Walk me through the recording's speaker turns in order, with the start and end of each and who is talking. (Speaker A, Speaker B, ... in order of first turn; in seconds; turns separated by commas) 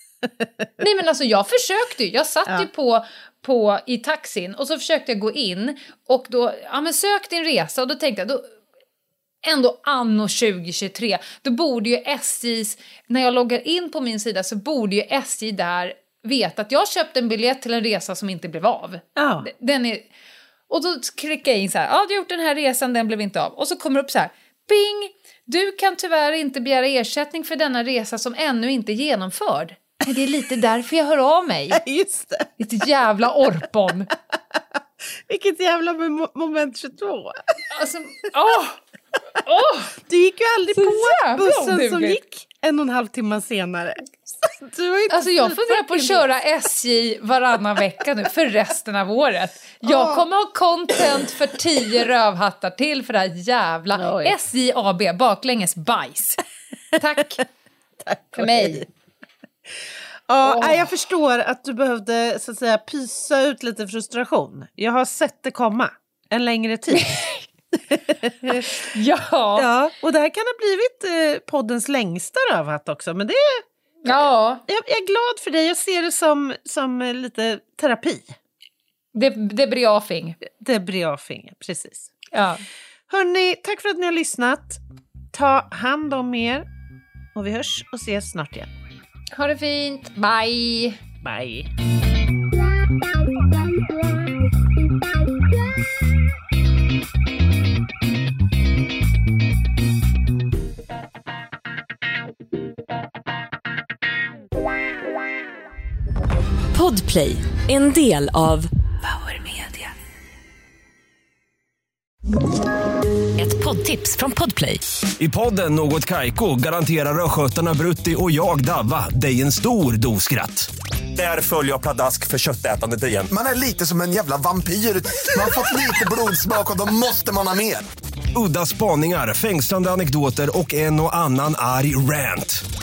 Speaker A: 0.8-8.4, Speaker A: 9.4-20.1, Speaker B: 19.1-19.5, Speaker A: 20.7-31.8, Speaker B: 31.7-32.5, Speaker A: 32.6-34.1, Speaker B: 35.3-37.4, Speaker A: 37.7-38.8, Speaker A: 39.3-40.0, Speaker B: 40.1-46.3, Speaker A: 40.7-42.2, Speaker A: 45.1-56.4, Speaker B: 49.8-50.2, Speaker B: 53.9-54.4, Speaker A: 57.0-57.4, Speaker B: 58.0-58.9, Speaker A: 58.3-58.8, Speaker B: 59.8-68.8, Speaker A: 60.4-60.9, Speaker A: 67.0-67.4, Speaker A: 68.5-69.7, Speaker B: 69.5-78.3, Speaker A: 74.0-74.6, Speaker A: 79.1-80.4, Speaker B: 80.5-82.1, Speaker A: 82.3-82.6, Speaker B: 83.1-84.8, Speaker B: 85.3-86.6, Speaker B: 87.3-88.7, Speaker A: 89.3-91.0, Speaker B: 91.2-91.7, Speaker C: 106.7-108.7, Speaker A: 109.3-109.9, Speaker C: 113.4-114.8, Speaker D: 115.2-123.3, Speaker E: 123.3-127.8, Speaker D: 128.3-132.6